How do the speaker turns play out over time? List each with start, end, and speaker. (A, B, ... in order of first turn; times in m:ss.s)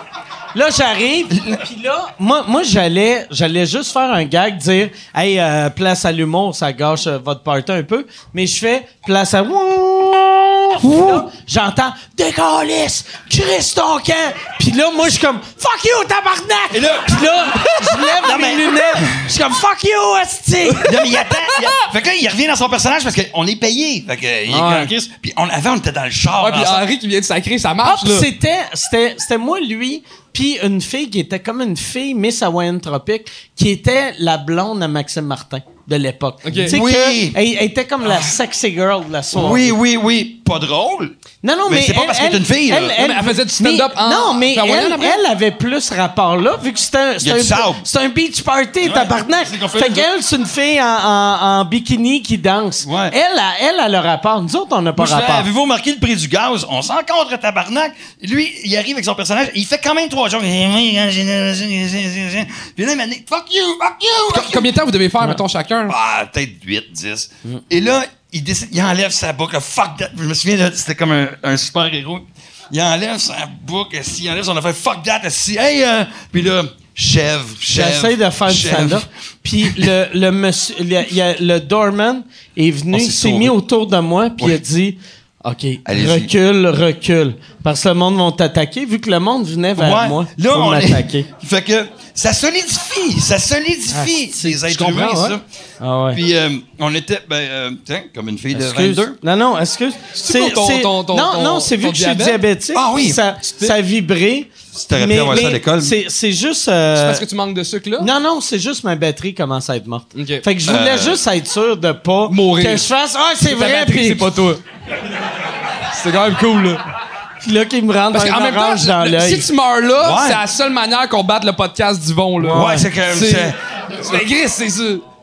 0:00.5-0:21.2 A
0:16.7-0:19.3 B
0:20.8-0:26.8 B
0:21.1-0:21.7 C
0:24.5-0:24.9 A
0:26.4-0:28.3 C
0:27.8-0:39.8 A
0:36.4-0:36.7 C
0:36.6-0:37.4 B
0:38.0-0:38.3 B
0:39.3-0:41.1 B
0:41.4-0:55.5 A
0:41.6-0:43.0 B
0:43.0-0:45.2 C
0:47.2-0:47.8 B
0:48.8-0:50.0 B
0:52.8-0:53.1 B
0:55.0-1:04.7 B
1:04.3-1:05.9 C
1:05.9-1:19.0 B
1:17.7-1:31.3 A
1:19.6-1:19.9 B
1:22.9-1:23.5 B
1:25.8-1:26.3 B
1:29.7-1:35.4 B
1:33.9-1:34.6 A
1:34.6-1:35.4 C
1:35.8-1:36.2 A
1:36.1-1:39.2 B
1:38.5-1:47.2 A
1:40.1-1:42.4 C
1:42.7-1:43.2 B
1:43.5-1:43.7 C
1:44.7-1:45.9 B
1:47.0-1:48.1 C
1:48.0-1:54.6 A
1:50.1-1:50.4 C
1:50.6-1:51.2 B
1:52.3-1:52.9 C
1:53.4-1:54.6 C
1:55.9-1:56.8 C
1:57.4-1:59.5 A
1:58.1-2:05.0 C
2:00.0-2:00.4 B
2:02.4-2:04.2 B